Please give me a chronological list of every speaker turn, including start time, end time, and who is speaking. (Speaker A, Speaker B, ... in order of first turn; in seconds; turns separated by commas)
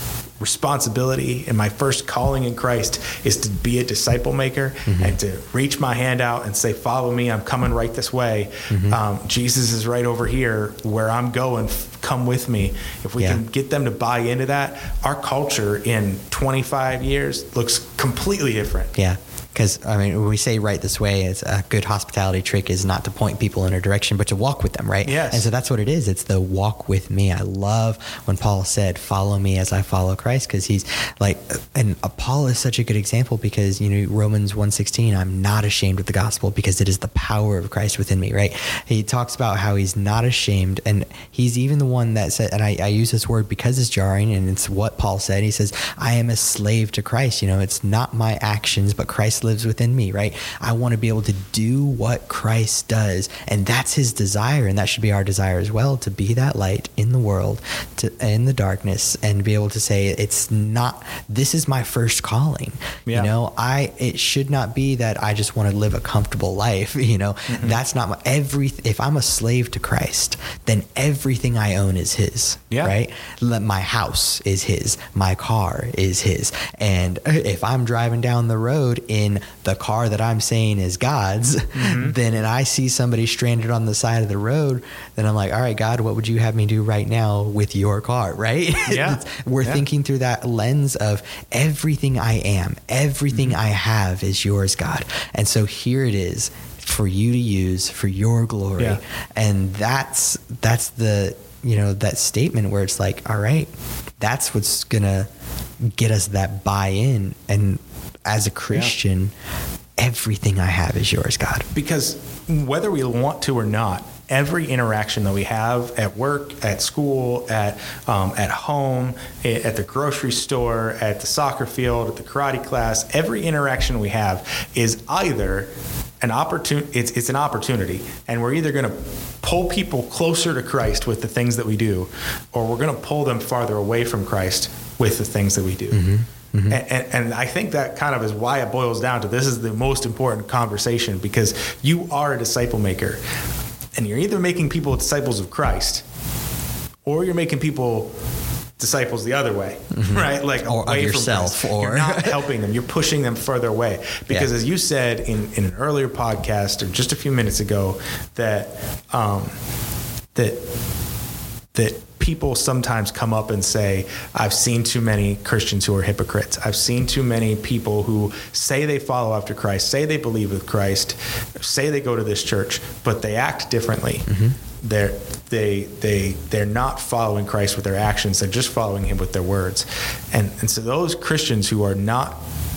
Speaker A: 0.4-18.9, Speaker B: 4.8-5.2, Speaker B: 8.7-9.0, Speaker B: 18.9-105.3, Speaker A: 25.0-25.5, Speaker A: 63.0-63.3, Speaker A: 67.5-67.8, Speaker A: 81.7-82.2, Speaker A: 88.8-89.8, Speaker A: 93.3-93.6, Speaker B: 105.9-109.3, Speaker B: 110.0-111.7, Speaker A: 111.7-125.7, Speaker A: 126.2-136.1, Speaker B: 135.9-136.8, Speaker A: 136.7-143.2, Speaker A: 144.0-146.0, Speaker A: 147.1-148.1, Speaker A: 148.8-159.5, Speaker B: 149.9-152.4, Speaker A: 160.3-160.6, Speaker A: 161.7-174.2, Speaker B: 174.3-174.6, Speaker A: 174.8-182.4